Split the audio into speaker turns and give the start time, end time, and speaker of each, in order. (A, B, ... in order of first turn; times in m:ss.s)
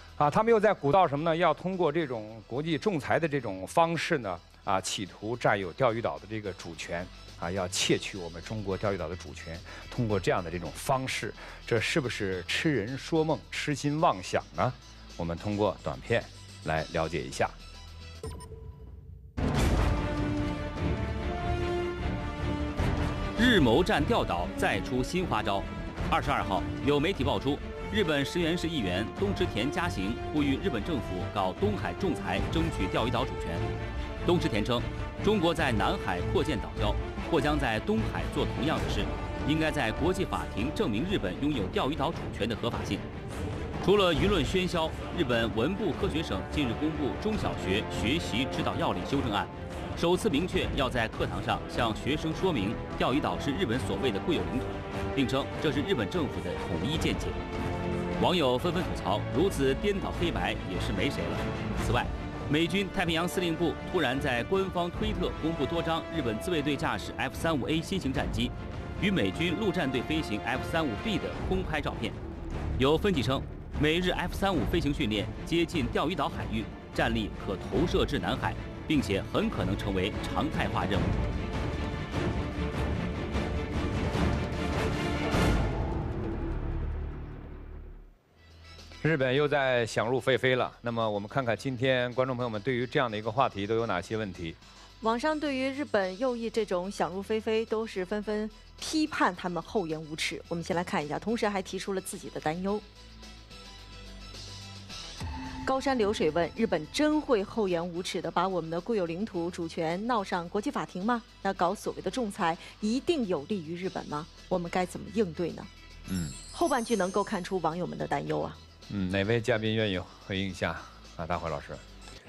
0:00.2-0:17.5 A
0:23.4-0:33.6 B
0:34.2-0:43.0 B
0:43.8-0:57.4 B
0:58.2-1:12.2 B
1:12.8-1:21.2 B
1:29.0-1:34.6 A
1:35.0-1:42.8 C
1:45.6-1:55.7 C
1:56.1-1:56.3 A
1:56.5-1:58.6 C
1:58.9-2:01.8 A